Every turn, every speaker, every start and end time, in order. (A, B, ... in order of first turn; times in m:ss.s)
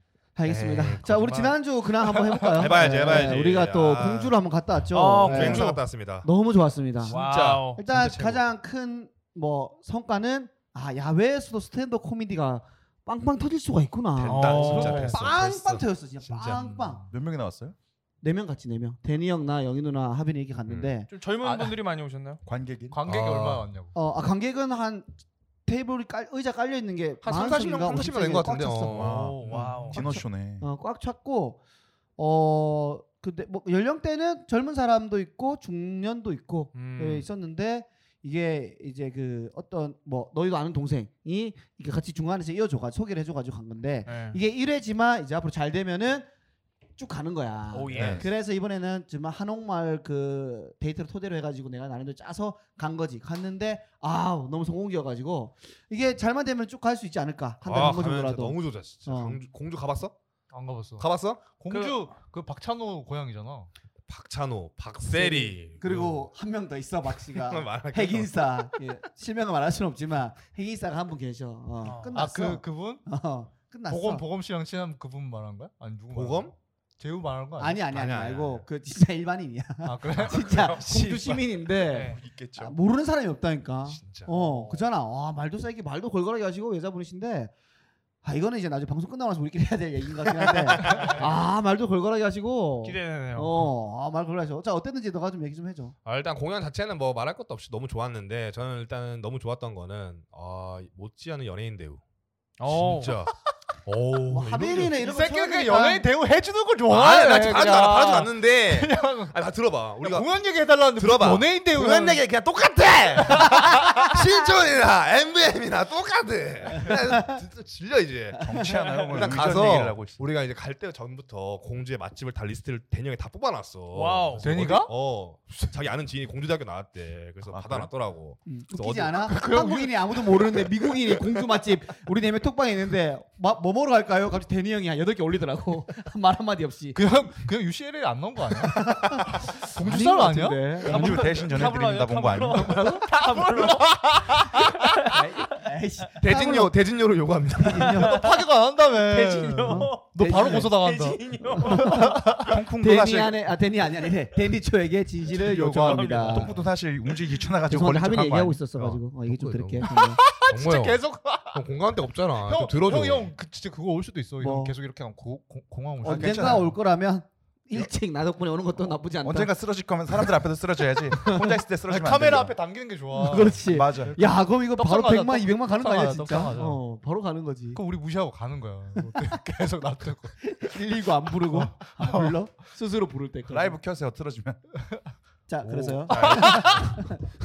0:00.4-0:07.2 A
0:00.5-0:01.4 B
0:02.5-0:04.4 B
0:04.9-0:05.8 C
0:05.2-0:06.3 B
0:07.1-0:08.4 B
0:07.1-0:07.8 C
0:07.8-0:17.1 A
0:14.2-0:16.6 B
0:14.3-0:15.2 C
0:14.6-0:15.2 D
0:16.5-0:17.0 D
0:17.1-0:17.8 E
0:18.2-0:21.1 A
0:21.1-0:22.4 C
0:21.4-0:21.8 D
0:22.4-0:23.0 E
0:22.9-0:23.9 D
0:23.1-0:23.6 B
0:23.9-0:25.1 A
0:25.7-0:31.6 A
0:27.2-0:29.3 B
0:28.9-0:30.6 E
0:29.0-0:30.1 C
0:32.2-0:46.3 A
0:36.8-0:37.3 C
0:44.1-0:44.4 C
0:47.0-0:59.4 A
0:47.7-0:48.2 C
0:47.9-0:48.3 E
0:57.6-1:00.2 B
1:00.5-1:03.7 D
1:01.0-1:01.4 B
1:01.7-1:02.0 C
1:04.1-1:06.3 B
1:05.1-1:14.3 A
1:07.3-1:08.5 B
1:11.8-1:12.1 C
1:12.1-1:13.0 D
1:13.9-1:17.8 D
1:16.1-1:16.5 B
1:17.6-1:27.5 A
1:17.9-1:18.7 B
1:19.8-1:21.4 D
1:21.9-1:22.2 C
1:22.0-1:22.8 E
1:23.9-1:24.3 B
1:28.2-1:35.9 A
1:30.9-1:31.2 C
1:32.8-1:33.7 C
1:36.0-1:42.0 B
1:42.6-1:43.2 C
1:42.7-1:45.0 B
1:44.3-1:46.1 A
1:45.0-1:49.4 D
1:46.9-2:10.4 B
1:50.0-1:52.3 D
1:53.2-1:54.1 D
1:56.8-1:57.3 A
1:58.4-1:59.0 A
1:58.4-2:00.2 E
2:03.9-2:04.5 C
2:04.4-2:04.9 D
2:07.4-2:07.9 E
2:08.5-2:17.0 A
2:09.3-2:09.8 D
2:17.0-2:20.8 D
2:18.6-2:21.4 A
2:20.8-2:24.2 C
2:20.8-2:22.9 E
2:22.8-2:25.0 D
2:25.0-2:26.8 A
2:26.2-2:28.1 B
2:27.6-2:28.3 A
2:28.0-2:28.4 C
2:28.1-2:32.6 D
2:29.0-2:32.0 C
2:29.6-2:30.8 A
2:31.6-2:36.5 A
2:32.4-2:33.4 E
2:35.4-2:36.5 D
2:35.6-2:36.5 C
2:36.2-2:38.6 E
2:37.7-2:40.2 A
2:38.8-2:43.3 B
2:39.8-2:41.7 D
2:42.4-2:46.7 D
2:44.4-2:44.8 A
2:46.0-2:49.6 A
2:46.0-2:46.7 E
2:49.2-2:52.6 E
2:51.1-2:51.6 A
2:51.9-2:56.8 D
2:53.1-2:57.8 A
2:53.7-2:54.2 E
2:57.7-3:00.7 D
3:00.4-3:03.8 A
3:01.4-3:02.4 D
3:03.5-3:04.7 E
3:05.5-3:07.2 A
3:06.1-3:06.4 E
3:06.1-3:06.9 B
3:06.2-3:06.8 D